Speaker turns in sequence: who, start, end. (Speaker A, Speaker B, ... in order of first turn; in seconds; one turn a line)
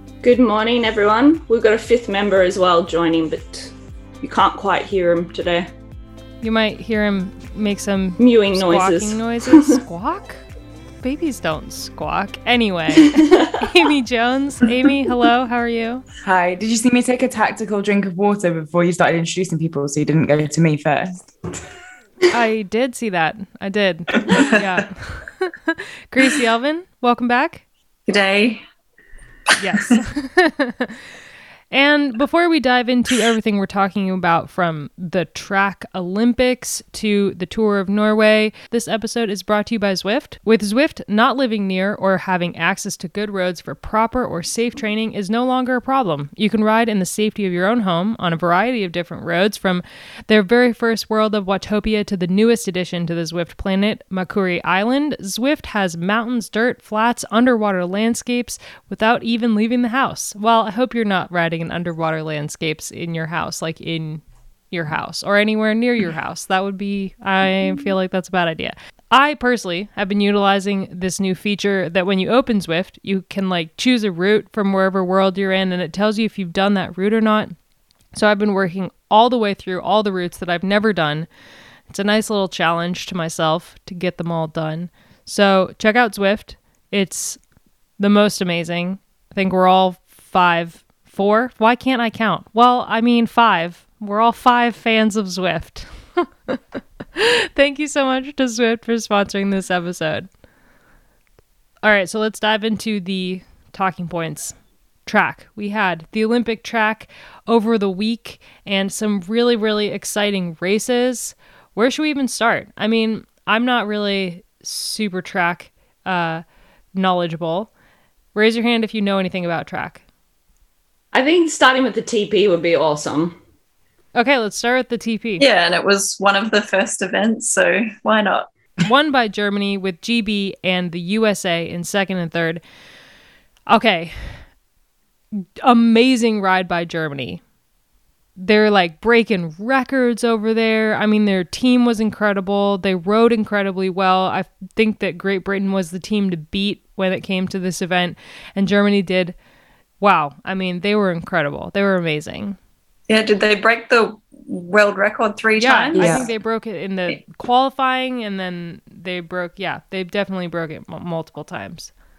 Speaker A: 0.2-5.7
Speaker B: 6.4-10.4
Speaker A: 8.2-9.8
Speaker B: 11.0-16.0
Speaker A: 13.1-13.5
Speaker C: 16.2-21.3
Speaker B: 22.3-27.6
Speaker D: 28.1-28.6
Speaker B: 29.6-31.0
Speaker B: 31.7-77.5
Speaker B: 78.1-81.3
Speaker B: 81.9-87.4
Speaker B: 88.0-100.3
Speaker B: 101.8-116.4
Speaker B: 116.9-117.7
Speaker B: 118.3-120.0
Speaker A: 121.1-123.4
Speaker B: 124.1-125.4
Speaker D: 125.4-128.5
Speaker B: 128.8-132.6
Speaker B: 133.7-134.4
Speaker B: 135.4-137.4
Speaker B: 138.4-149.3
Speaker B: 150.0-152.6
Speaker D: 153.1-156.3
Speaker B: 155.6-161.9
Speaker C: 155.9-156.3